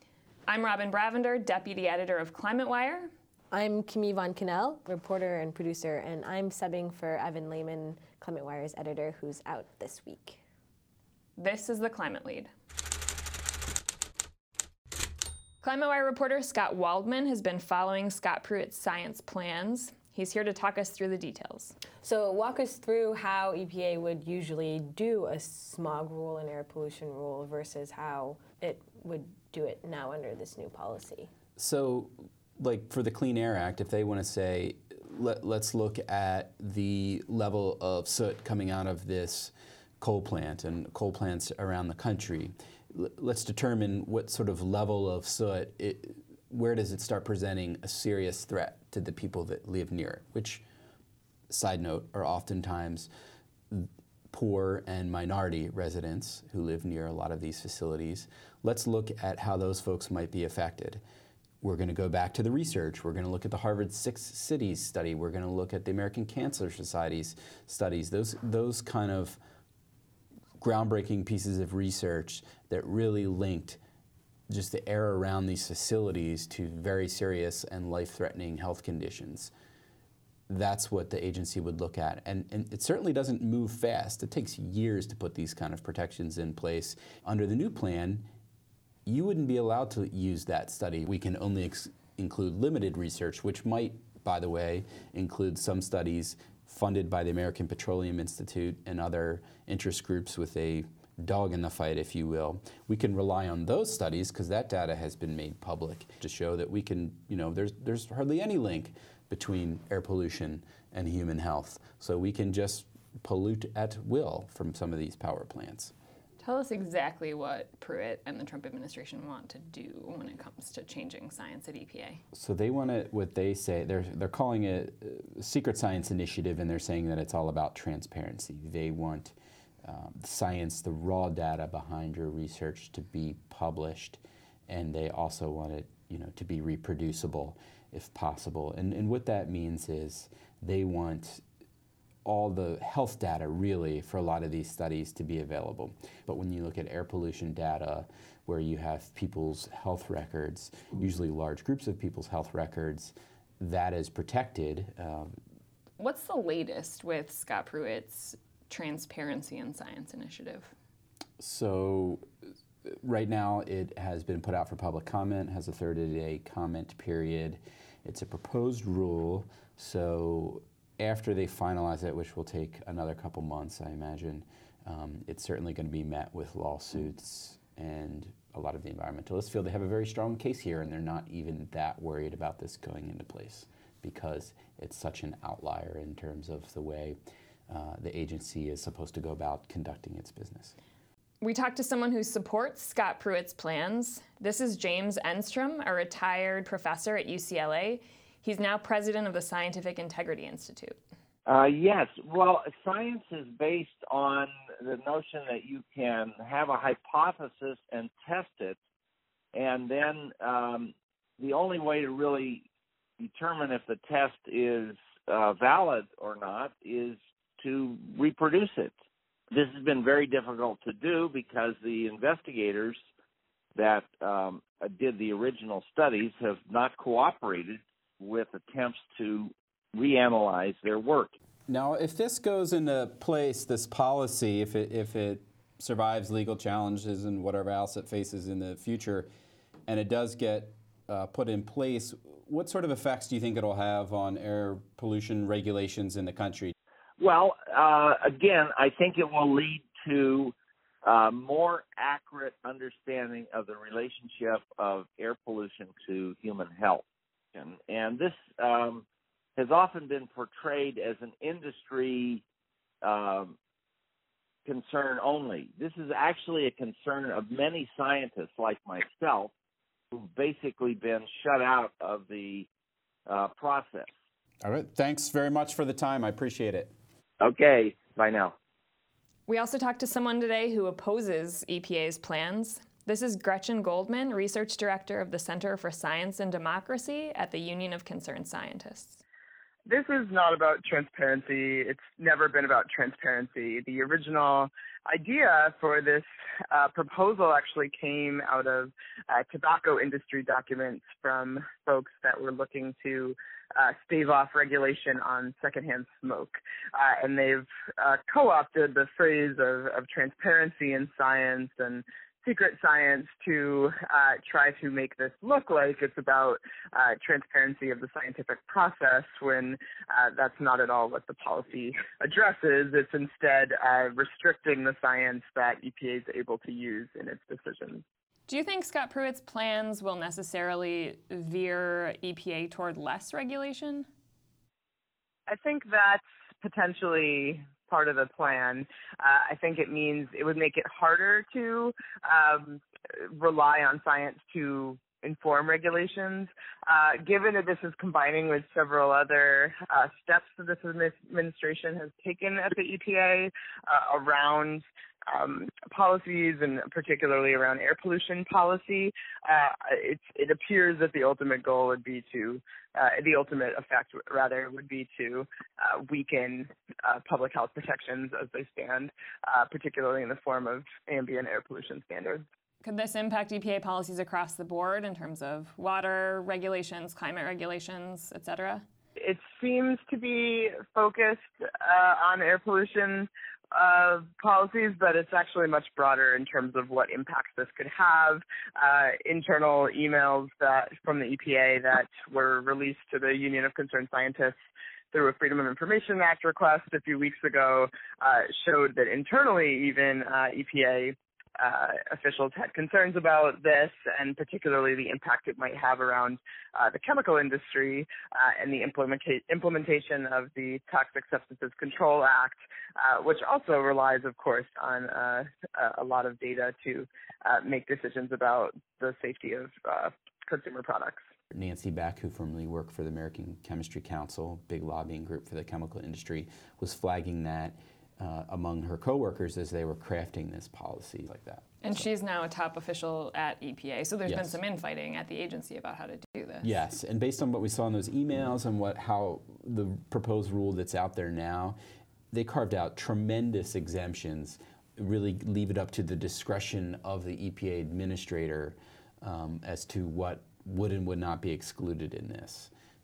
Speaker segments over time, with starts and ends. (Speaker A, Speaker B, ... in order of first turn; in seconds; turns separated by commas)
Speaker A: 0.5-3.1, Speaker B: 3.5-10.4, Speaker A: 11.4-12.5, Speaker A: 15.6-21.7, Speaker B: 22.0-31.3, Speaker C: 31.6-50.6, Speaker C: 51.5-53.1, Speaker C: 53.7-61.0, Speaker C: 61.6-69.4, Speaker C: 70.6-73.8, Speaker C: 74.5-79.5, Speaker C: 80.5-88.2, Speaker C: 89.0-115.9, Speaker A: 116.4-122.2, Speaker C: 122.3-141.4, Speaker C: 142.2-155.3, Speaker A: 156.0-160.7, Speaker C: 161.4-162.2, Speaker C: 162.9-187.2, Speaker C: 187.7-190.7, Speaker A: 191.4-200.9, Speaker D: 201.4-208.8, Speaker D: 209.5-212.7, Speaker D: 213.2-218.9, Speaker D: 219.5-223.0, Speaker D: 223.8-231.3, Speaker C: 231.7-239.3, Speaker C: 239.9-246.7, Speaker D: 247.2-259.1, Speaker D: 259.6-262.4, Speaker D: 263.0-263.6, Speaker D: 264.7-269.5, Speaker D: 270.1-272.7, Speaker D: 273.3-274.1, Speaker C: 274.6-276.9, Speaker D: 277.4-278.6, Speaker A: 279.5-289.2, Speaker E: 289.9-328.0, Speaker A: 328.5-334.1, Speaker E: 335.5-372.4, Speaker A: 372.8-378.9, Speaker E: 379.2-394.6, Speaker E: 395.1-421.2, Speaker C: 421.5-432.1, Speaker A: 431.8-436.8, Speaker C: 434.2-434.6, Speaker C: 436.6-441.8, Speaker C: 442.3-452.7